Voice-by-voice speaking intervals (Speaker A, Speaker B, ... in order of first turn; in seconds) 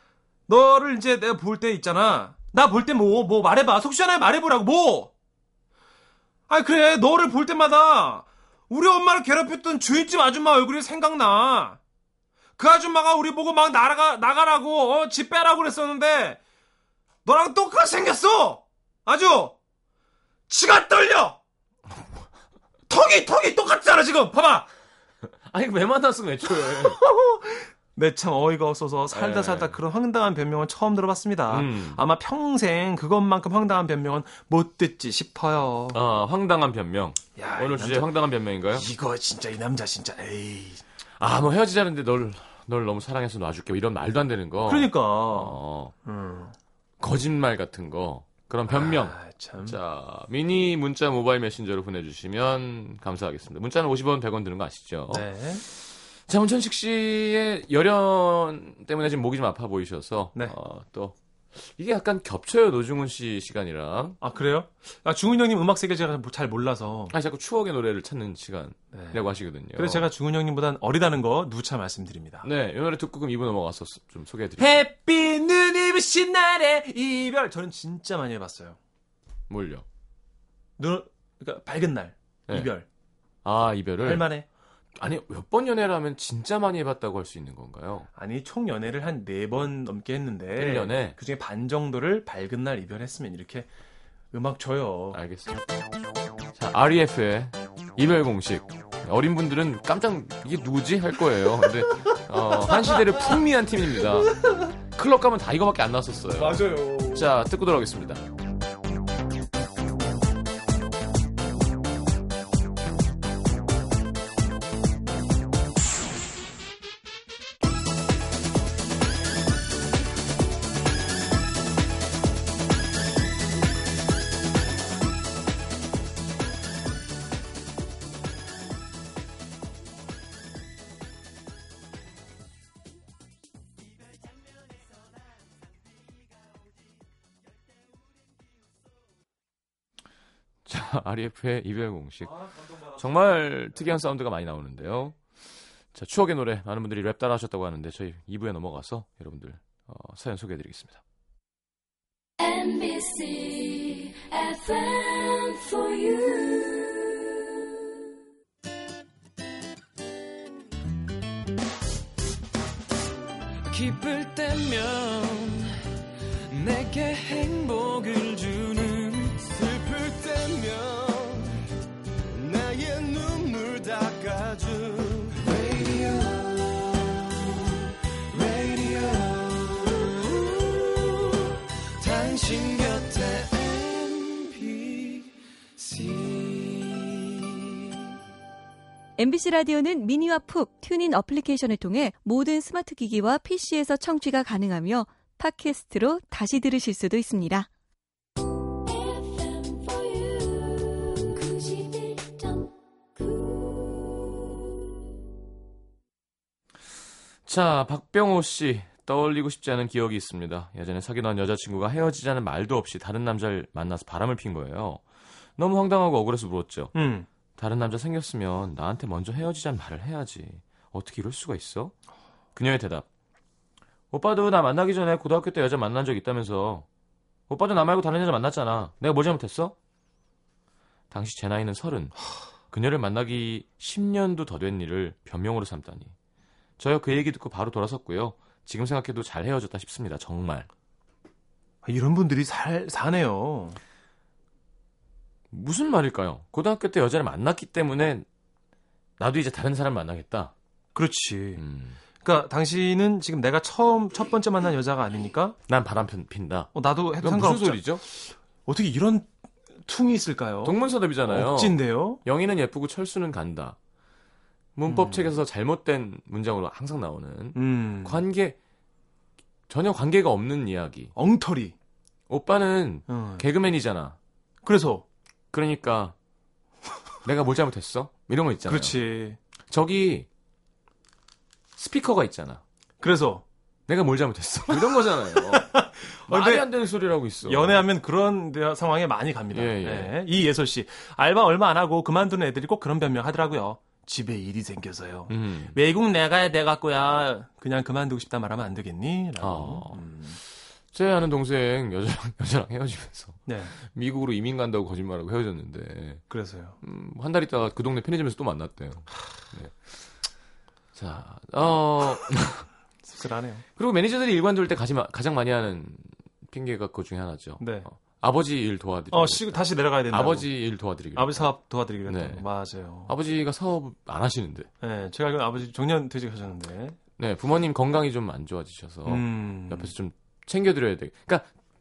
Speaker A: 0.5-5.1, 6.5-11.8, 12.6-16.4, 17.2-19.6, 20.5-21.4, 22.9-24.7, 26.5-36.0, 37.4-38.1, 38.7-40.8, 44.6-46.5, 48.7-49.8, 55.1-55.6, 64.2-67.1, 68.9-72.5, 74.6-78.8, 80.8-82.9, 84.0-84.5, 88.2-93.7, 94.3-95.2, 102.5-103.4, 104.3-104.7, 106.3-107.3, 142.2-143.2, 216.9-217.3, 241.8-243.8, 250.9-251.6, 252.2-255.6, 256.7-259.3, 259.8-262.2, 264.9-265.3, 267.6-268.2, 271.1-271.8, 273.1-273.4, 274.6-275.1, 278.7-279.4, 283.0-283.4, 284.7-286.7, 287.4-300.4, 303.5-303.8, 306.3-306.8, 313.0-313.6, 317.6-317.9, 319.1-320.5, 321.1-323.1, 324.8-327.0, 329.1-329.9
Speaker B: 25.5-27.0, 29.1-29.8, 31.5-32.0, 35.9-38.9, 41.2-45.9, 47.0-55.3, 56.3-64.2, 67.1-70.1, 72.4-74.8, 79.5-79.8, 83.4-84.3, 85.0-88.1, 90.6-91.2, 95.1-95.6, 96.5-104.4, 104.9-108.3, 140.7-142.4, 142.9-145.2, 145.9-151.0, 207.5-215.0, 215.6-216.9, 217.6-221.9, 222.6-223.1, 224.1-226.9, 227.5-229.8, 231.1-232.2, 232.7-236.1, 236.8-240.7, 245.5-248.3, 249.2-250.5, 251.6-252.0, 255.7-258.0, 260.6-263.8, 264.8-268.6, 269.7-271.1, 272.3-274.2, 275.5-276.1, 277.2-279.0, 279.7-280.3, 281.8-282.6, 283.9-287.8, 289.5-290.1, 295.3-295.8, 299.4-300.1, 300.9-306.2, 306.8-309.9, 310.9-312.7, 313.8-321.5, 322.1-322.4, 323.1-324.7, 327.2-331.5
Speaker C: 152.4-157.3, 198.8-204.5
Speaker D: 163.7-165.8, 166.5-171.6, 172.3-187.6
Speaker E: 189.2-197.7